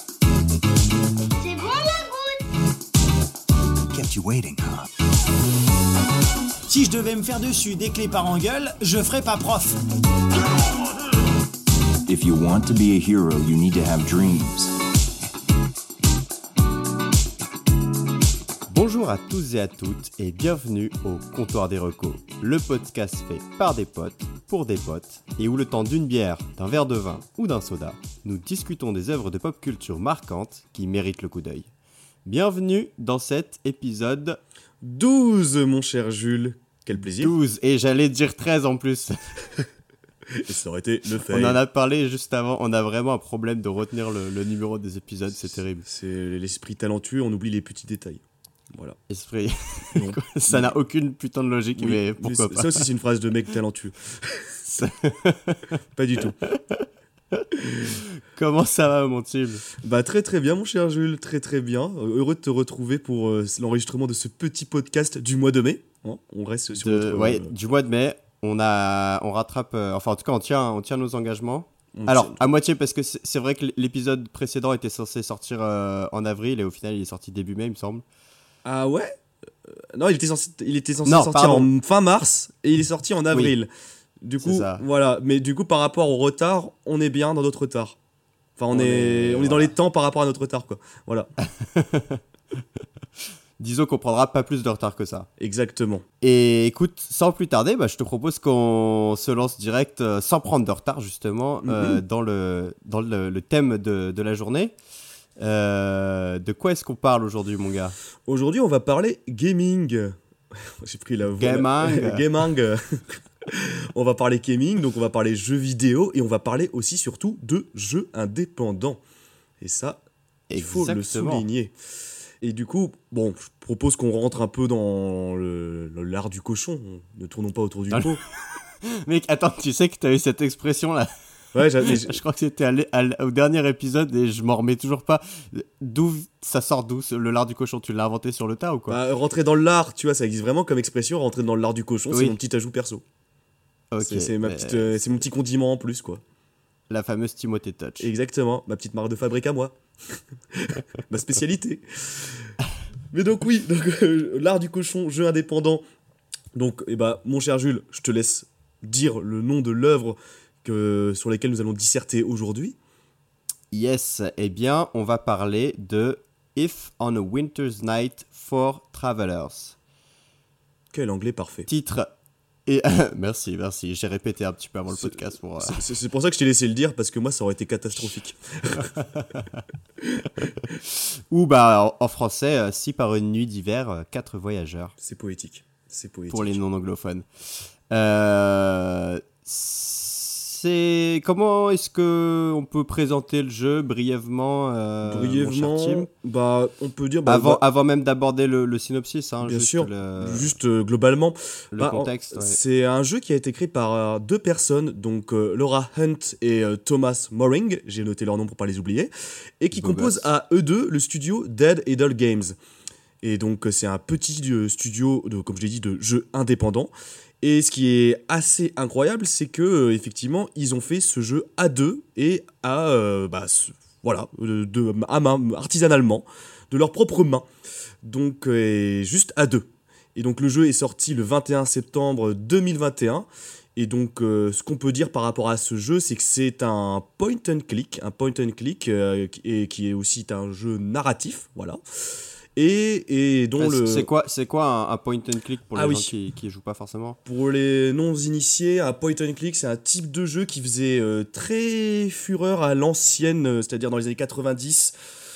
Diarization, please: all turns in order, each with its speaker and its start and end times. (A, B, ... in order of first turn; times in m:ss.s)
0:03.9-0:04.8 A
0:06.7-0:09.8 B
0:12.1-0:14.7 A
0:18.7-0:31.7 C
0:32.3-0:34.4 C
0:34.8-0:37.3 D
0:37.0-0:39.7 C
0:40.3-0:41.6 D
0:41.3-0:45.8 C
0:45.4-0:48.2 D
0:48.7-0:49.0 D
0:49.1-0:52.8 C
0:49.9-0:50.7 D
0:51.8-0:54.6 D
0:54.7-0:55.7 C
0:56.0-0:56.4 D
0:56.7-0:59.7 C
0:59.8-1:07.5 D
1:06.8-1:18.0 C
1:12.0-1:12.4 D
1:18.6-1:23.7 D
1:21.0-1:21.7 C
1:24.2-1:28.0 D
1:24.4-1:24.8 C
1:28.6-1:31.3 D
1:28.7-1:29.7 C
1:31.6-1:32.2 C
1:33.6-1:35.3 C
1:35.4-1:36.0 D
1:36.2-1:44.7 C
1:41.6-1:42.0 D
1:45.4-1:48.0 C
1:48.3-1:59.0 D
1:51.4-1:52.3 C
1:59.6-2:00.0 D
2:00.5-2:01.4 C
2:00.6-2:01.7 D
2:02.4-2:08.2 D
2:07.9-2:11.1 C
2:11.5-2:12.2 D
2:11.8-2:19.0 C
2:18.9-2:23.0 D
2:23.9-2:25.1 C
2:24.0-2:26.2 D
2:26.9-2:28.1 C
2:28.0-2:32.6 D
2:33.1-2:35.8 D
2:36.5-2:42.8 D
2:43.7-2:49.8 C
2:50.9-2:51.7 D
2:51.7-2:52.1 C
2:52.7-2:55.8 C
2:55.0-2:59.0 D
2:59.0-2:59.6 C
3:00.0-3:00.7 D
3:00.8-3:04.9 C
3:05.0-3:06.6 D
3:06.3-3:16.1 C
3:15.1-3:17.6 D
3:17.2-3:20.5 C
3:19.4-3:32.6 D
3:21.7-3:22.6 C
3:29.7-3:30.3 C
3:33.2-3:47.5 D
3:48.0-4:04.1 D
4:03.6-4:07.2 C
4:05.7-4:06.1 D
4:07.2-4:14.9 D